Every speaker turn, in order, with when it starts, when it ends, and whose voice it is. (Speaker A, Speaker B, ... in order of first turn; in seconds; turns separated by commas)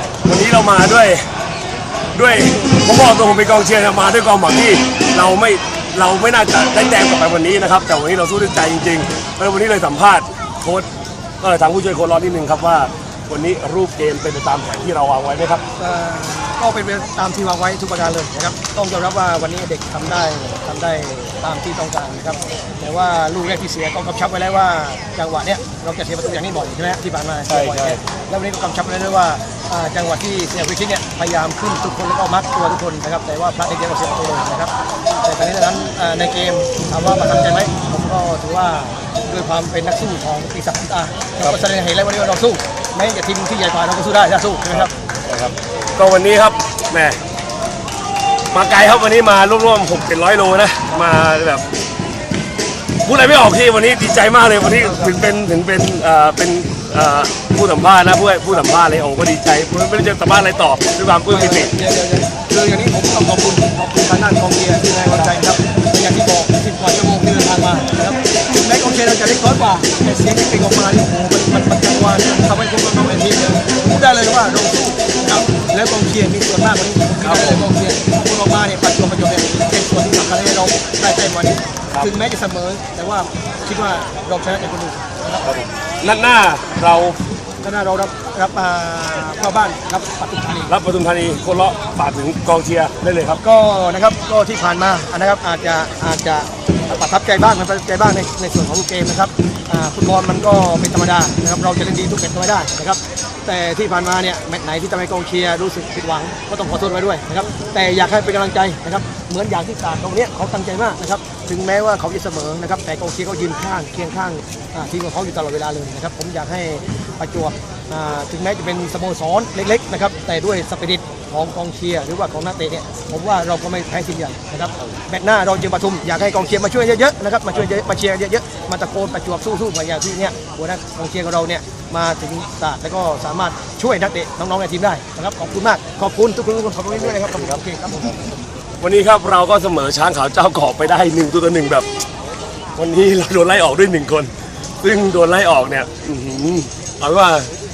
Speaker A: 0.2-1.2, Speaker A: 2.1-10.9, Speaker A: 11.4-15.6, Speaker B: 15.8-44.9, Speaker A: 27.5-28.0, Speaker A: 44.7-47.2, Speaker A: 48.5-51.6, Speaker A: 53.0-61.7, Speaker B: 54.6-55.1, Speaker B: 61.3-85.5, Speaker A: 77.2-77.7, Speaker A: 85.4-87.2, Speaker B: 87.6-90.7, Speaker A: 90.7-93.4, Speaker B: 93.3-138.2, Speaker A: 136.9-137.6, Speaker A: 138.8-141.9, Speaker A: 142.7-147.5